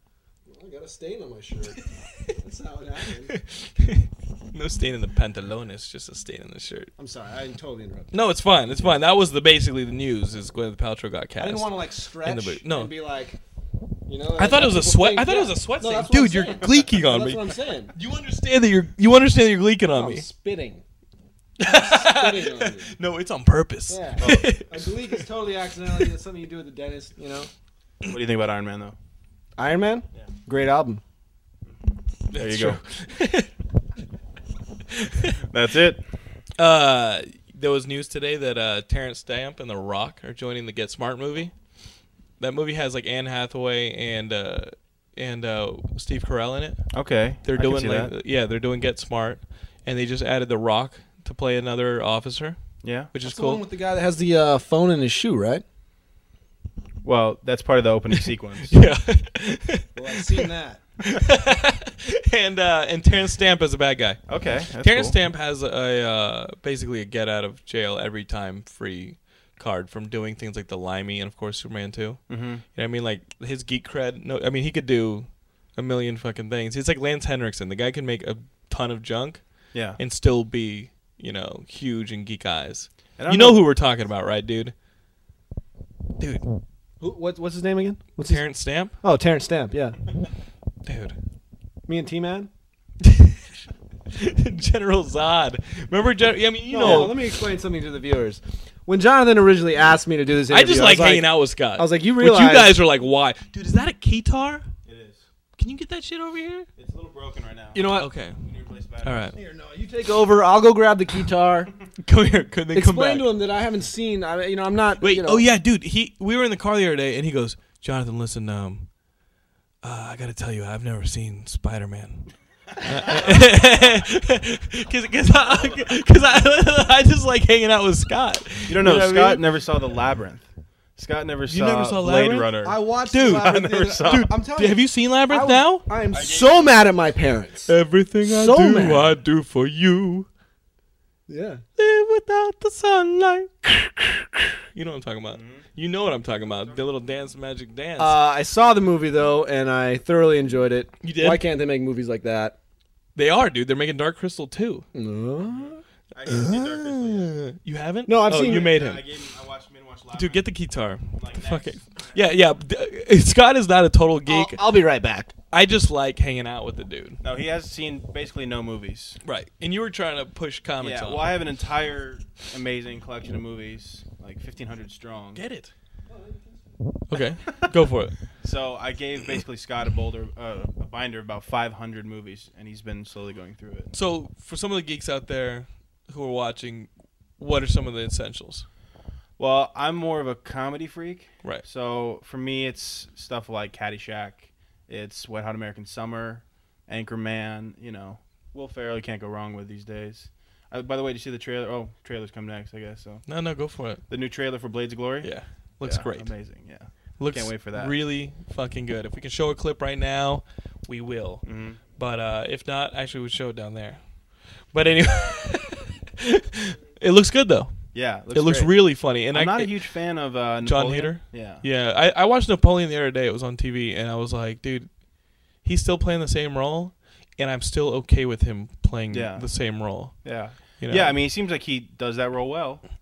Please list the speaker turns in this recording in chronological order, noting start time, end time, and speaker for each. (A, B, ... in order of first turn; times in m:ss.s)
0:00.5-0:01.8 A
0:02.0-0:02.3 B
0:02.3-0:03.3 A
0:03.3-0:06.9 B
0:07.0-0:08.1 A
0:08.1-0:12.9 B
0:11.4-0:13.4 A
0:14.1-0:17.9 A
0:14.3-0:20.2 B
0:19.9-0:20.8 A
0:21.6-0:25.2 B
0:21.7-0:22.9 A
0:23.9-0:27.5 A
0:24.2-0:24.7 C
0:28.0-0:29.0 C
0:29.6-0:31.0 A
0:32.3-0:33.5 B
0:32.3-0:32.8 C
0:34.9-0:35.4 B
0:35.5-0:36.0 C
0:36.6-0:41.5 B
0:42.4-0:46.9 B
0:46.9-0:48.1 C
0:47.4-0:52.6 B
0:52.8-0:53.1 C
0:53.1-0:53.6 B
0:53.2-0:55.6 A
0:57.0-0:58.8 C
0:58.7-1:00.4 B
0:59.9-1:00.8 A
1:01.0-1:04.2 B
1:04.3-1:05.1 C
1:04.8-1:12.2 B
1:12.3-1:12.6 C
1:12.7-1:19.4 B
1:19.7-1:20.0 C
1:20.0-1:24.7 B
1:23.2-1:23.6 C
1:26.2-1:26.4 B
1:27.0-1:28.4 A
1:28.2-1:28.9 B
1:29.0-1:30.0 A
1:30.8-1:31.2 B
1:31.9-1:32.5 A
1:33.0-1:33.4 B
1:34.1-1:37.2 B
1:36.7-1:42.8 A
1:36.8-1:37.1 C
1:40.5-1:44.7 B
1:44.8-1:45.2 C
1:45.6-1:46.7 B
1:46.8-1:49.3 C
1:47.7-1:48.1 A
1:47.9-1:48.4 B
1:49.0-1:49.3 B
1:49.3-1:51.7 A
1:52.0-1:53.3 B
1:52.7-1:55.4 A
1:55.0-1:58.9 B
1:59.8-2:02.2 B
2:02.8-2:09.4 B
2:08.7-2:14.3 C
2:11.5-2:12.5 B
2:12.6-2:17.7 A
2:13.1-2:15.8 B
2:16.1-2:16.7 C
2:17.7-2:20.3 B
2:18.2-2:19.1 A
2:21.3-2:21.6 A
2:21.8-2:28.2 B
2:25.3-2:25.7 C
2:26.4-2:26.9 C
2:28.0-2:32.6 A
2:31.0-2:31.4 B
2:33.1-2:34.8 B
2:34.9-2:35.8 A
2:35.4-2:37.3 C
2:36.2-2:39.0 B
2:38.1-2:38.7 A
2:38.3-2:40.4 C
2:40.2-2:44.7 B
2:41.1-2:42.2 C
2:44.2-2:45.3 A
2:45.5-2:47.2 B
2:47.2-2:49.2 C
2:49.2-2:51.4 B
2:50.8-2:55.4 C
2:55.3-2:55.7 B
2:56.1-2:56.8 A
2:57.1-2:58.2 B
2:58.4-3:03.9 C
3:03.9-3:08.6 B
3:09.4-3:23.2 C
3:23.2-3:24.0 B
3:24.1-3:27.9 C
3:25.2-3:26.3 B
3:27.2-3:31.4 B
3:31.4-3:31.8 C
3:32.0-3:34.0 B
3:34.7-3:37.8 B
3:37.9-3:41.6 C
3:38.3-3:39.7 B
3:40.6-3:44.9 B
3:45.6-3:50.2 B
3:49.1-3:49.5 C
3:50.2-3:52.8 C
3:50.8-3:51.2 B